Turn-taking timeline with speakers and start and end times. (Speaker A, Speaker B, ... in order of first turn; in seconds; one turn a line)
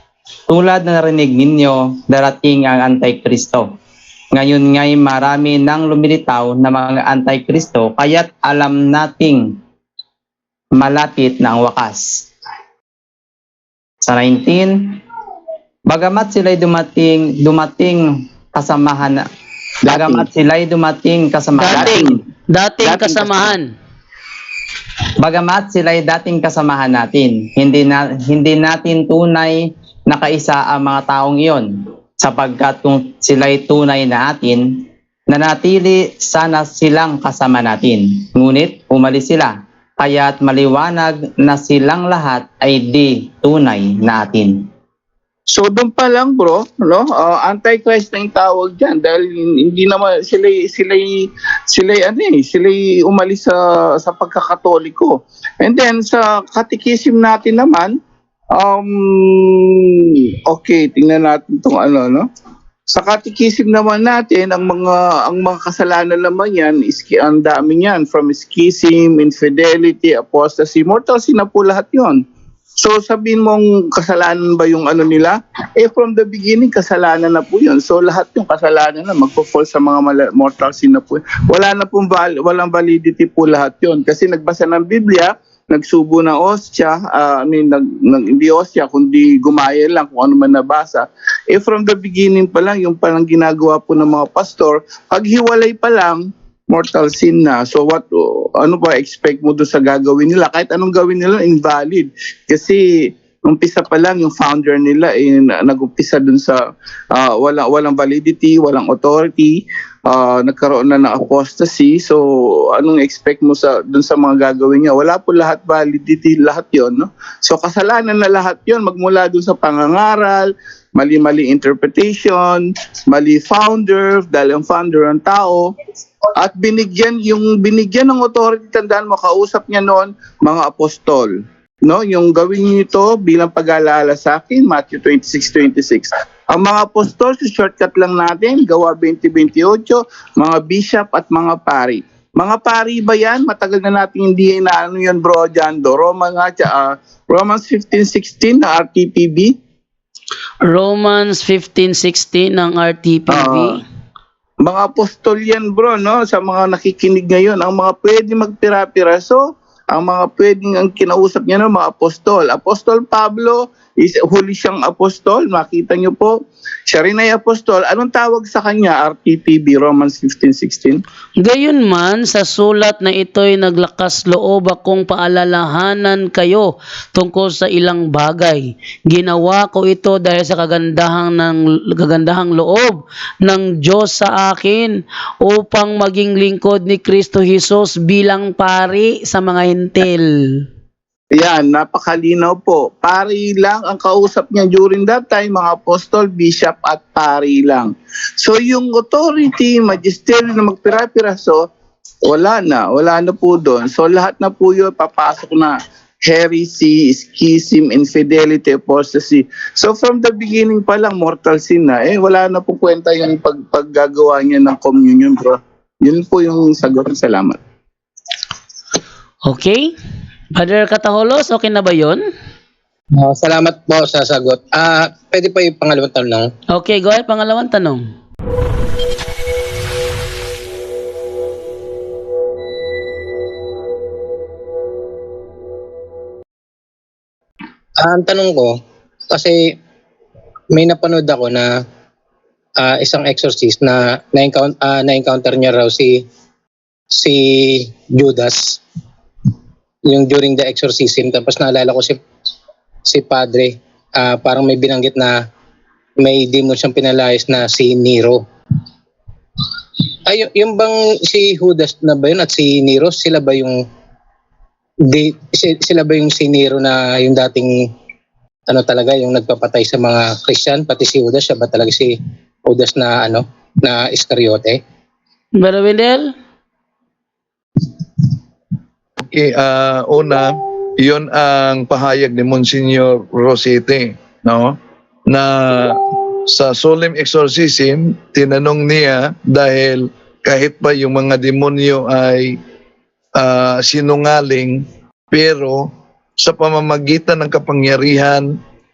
Speaker A: 0.5-3.7
Speaker A: 4.3-9.4
Speaker A: 10.8-12.2
Speaker A: 14.0-15.0
Speaker A: 15.9-19.3
Speaker B: 19.9-20.3
Speaker A: 19.9-22.1
Speaker C: 21.6-23.7
Speaker B: 21.7-22.0
Speaker A: 22.9-23.5
Speaker A: 25.2-31.7
Speaker A: 32.2-44.6
Speaker B: 45.5-58.0
Speaker B: 58.5-59.9
Speaker B: 60.5-62.3
Speaker B: 62.9-72.2
Speaker B: 72.8-102.8
Speaker B: 103.4-106.6
Speaker B: 107.1-125.7
Speaker B: 126.4-131.3
Speaker B: 131.8-149.5
Speaker C: 150.7-153.8
Speaker B: 153.3-153.8
Speaker B: 154.6-166.3
Speaker B: 166.9-171.0
Speaker C: 171.4-190.6
Speaker B: 191.3-201.6
Speaker B: 202.2-217.6
Speaker C: 219.4-219.9
Speaker C: 220.5-222.2
Speaker D: 223.2-226.5
Speaker C: 226.7-228.1
Speaker D: 238.0-238.8
Speaker D: 240.7-241.7
Speaker D: 242.8-246.2
Speaker D: 247.2-248.8
Speaker D: 250.1-252.2
Speaker D: 253.1-255.3
Speaker D: 256.2-258.4
Speaker D: 260.3-263.8
Speaker D: 265.1-267.7
Speaker D: 268.7-272.1
Speaker D: 272.7-274.8
Speaker C: 275.6-276.3
Speaker E: 279.2-284.8
Speaker E: 285.3-285.9
Speaker E: 286.5-292.6
Speaker E: 293.4-298.5